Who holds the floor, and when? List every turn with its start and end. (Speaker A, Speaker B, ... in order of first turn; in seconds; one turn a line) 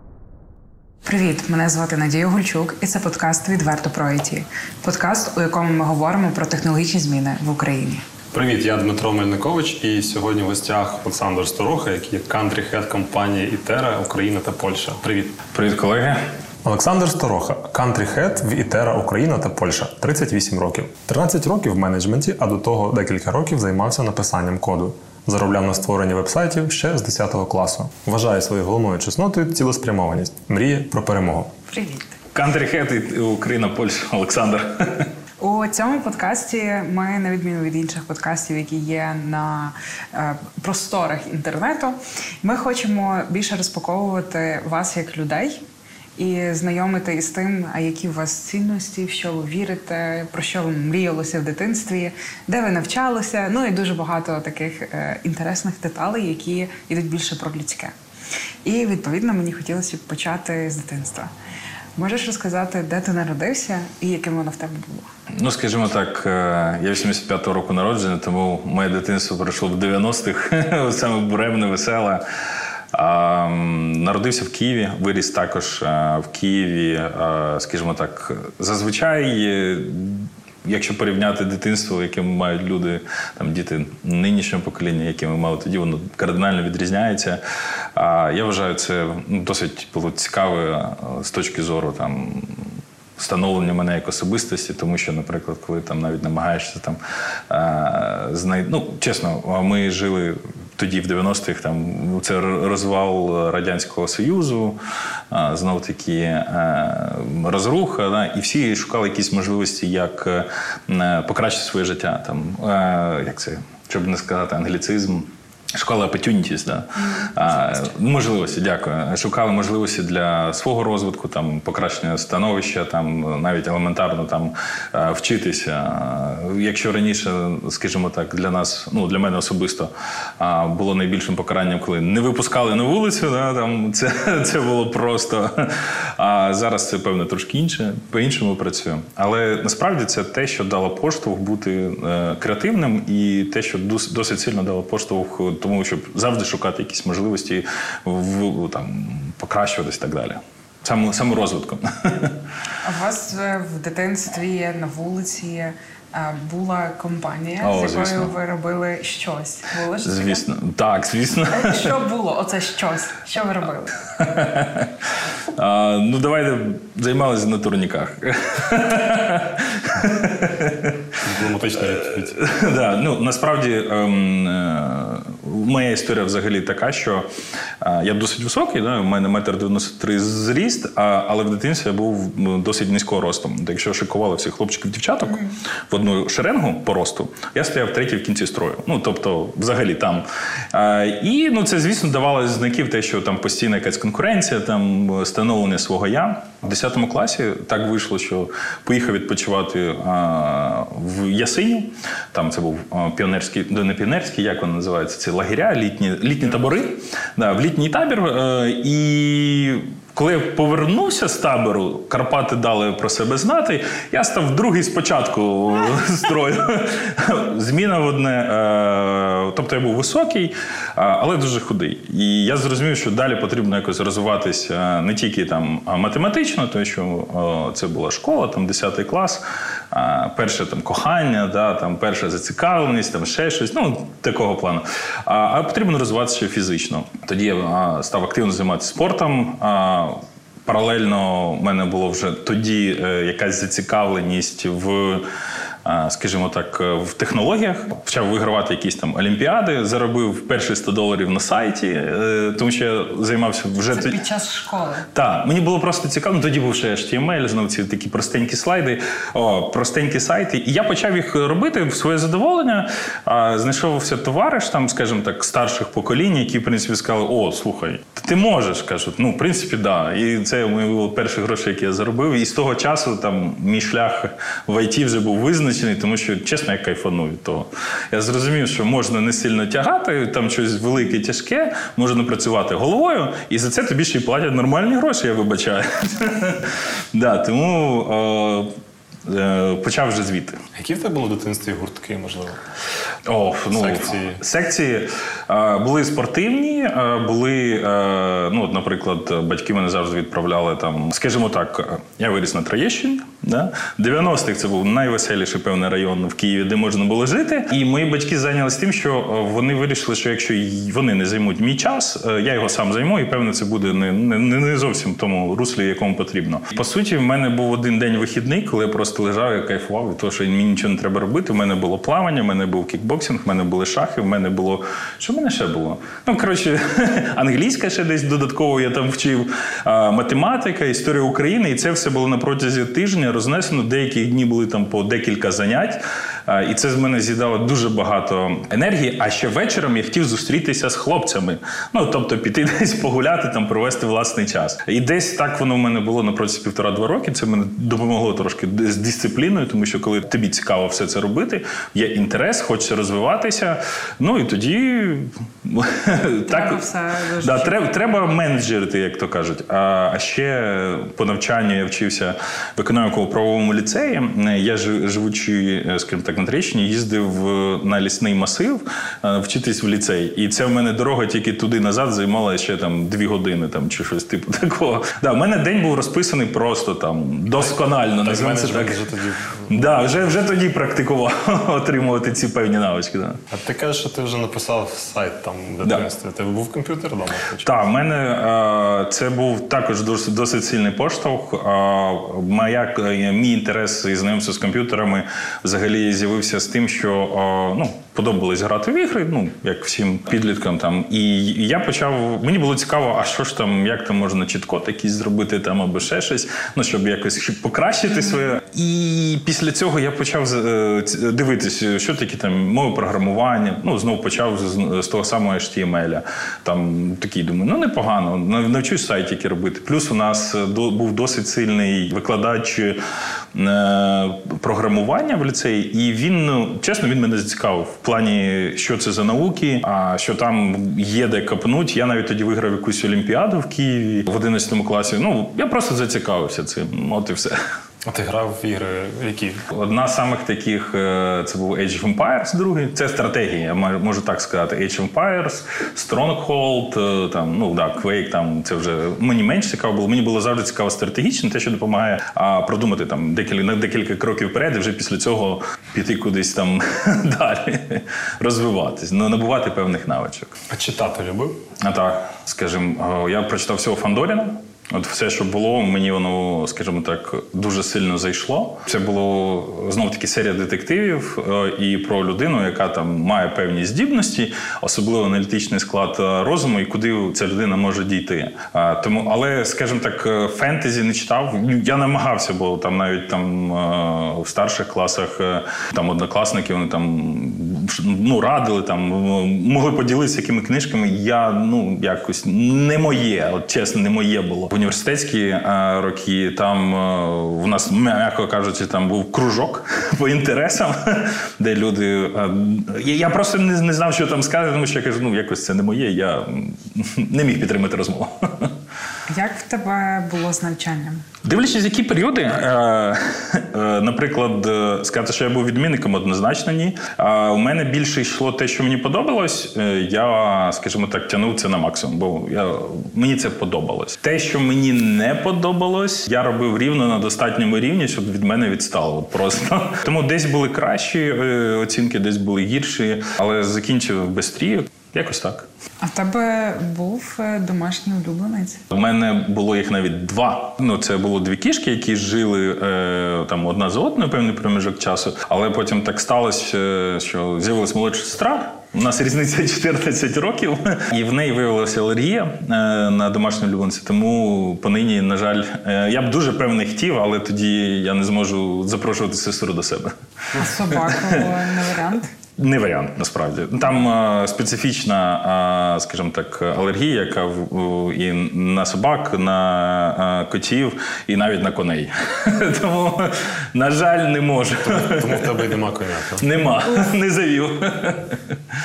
Speaker A: 1.1-8.0
Speaker B: 8.3-15.4
Speaker C: 15.5-16.2
Speaker B: 16.6-31.5
Speaker A: 31.7-32.2
Speaker C: 32.3-35.1
Speaker A: 35.4-45.6
Speaker A: 46.2-57.9
Speaker A: 58.6-61.3
Speaker A: 62.0-65.1
Speaker C: 65.3-72.2
Speaker C: 72.9-87.4
Speaker C: 87.9-104.8
Speaker C: 105.3-152.3
Speaker A: 117.0-117.9
Speaker A: 152.8-160.4
Speaker C: 157.6-158.3
Speaker C: 160.0-161.9
Speaker A: 161.4-163.9
Speaker C: 164.2-164.9
Speaker C: 165.5-171.2
Speaker B: 171.2-172.4
Speaker C: 171.9-177.3
Speaker C: 177.8-245.2
Speaker C: 245.8-254.2
Speaker A: 253.9-255.1
Speaker C: 255.1-288.7
Speaker C: 289.2-290.6
Speaker B: 290.7-292.6
Speaker C: 293.2-356.8
Speaker B: 293.7-294.4
Speaker A: 356.5-358.0
Speaker C: 357.4-379.1
Speaker B: 377.6-379.7
Speaker C: 379.6-383.4
Speaker B: 383.5-387.7
Speaker C: 387.6-423.0
Speaker C: 423.5-437.6
Speaker B: 438.0-439.6
Speaker C: 439.7-460.6
Speaker B: 460.7-461.6
Speaker C: 461.8-508.7
Speaker A: 509.3-511.2
Speaker C: 511.4-535.7
Speaker A: 536.0-538.8
Speaker C: 538.9-561.5
Speaker A: 560.5-562.3
Speaker C: 562.6-575.7
Speaker B: 574.8-576.5
Speaker C: 576.4-578.4